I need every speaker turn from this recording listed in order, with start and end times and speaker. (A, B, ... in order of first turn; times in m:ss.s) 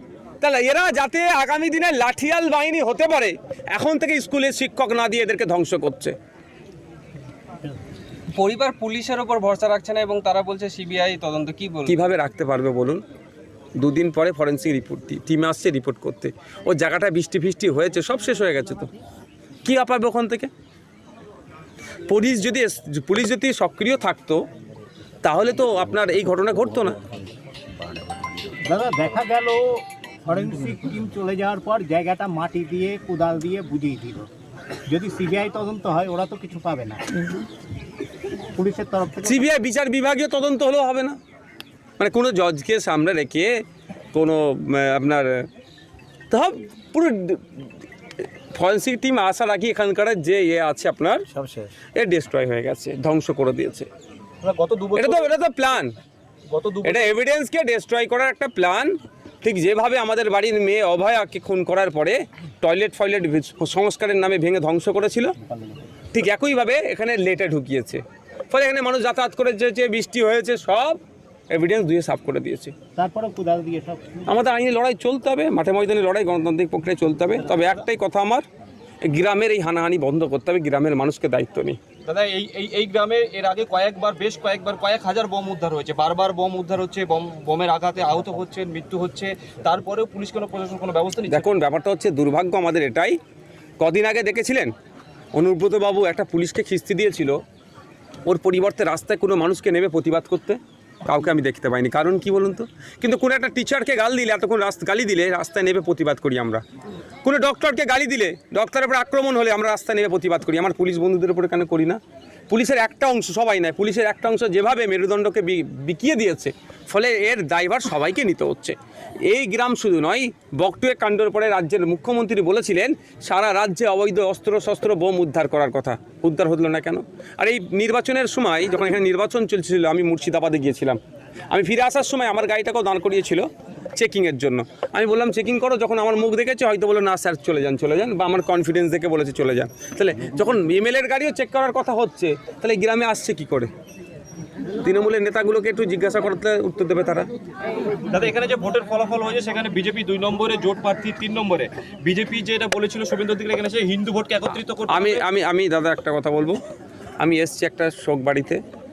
0:00.4-0:06.1 A
0:08.3-0:11.9 B
0:11.8-0:13.0 A
0:13.8-0:18.9 A
0:19.6-0:20.5 A
0:22.1-0:24.4 A
0:25.2-0:27.0 A
0:28.6-0:34.3 C
0:34.9-0:37.2 C
0:38.6-0:39.4 C
0:39.2-0:41.2 A
0:42.0-0:43.5 A
0:44.1-0:45.4 A
0:46.3-0:47.4 A
0:48.5-0:51.2 A
0:51.4-0:51.7 B
0:52.0-0:53.9 A
0:54.4-0:55.3 D
0:54.9-0:55.9 A
0:56.5-0:57.1 D
0:56.8-1:05.3 A
1:05.4-1:05.8 C
1:06.1-1:11.0 A
1:11.5-1:12.7 A
1:13.0-1:14.4 C
1:14.3-1:18.4 A
1:19.0-1:21.8 A
1:22.0-1:31.5 D
1:31.3-1:33.2 A
1:33.8-1:34.7 A
1:35.3-1:37.4 A
1:38.2-1:46.6 A
1:47.2-1:58.8 A
1:59.3-2:11.0 A
2:11.5-2:13.4 A
2:14.0-2:23.7 A
2:24.8-2:27.3 A
2:28.1-2:35.2 D
2:34.9-2:36.6 A
2:37.2-2:38.6 A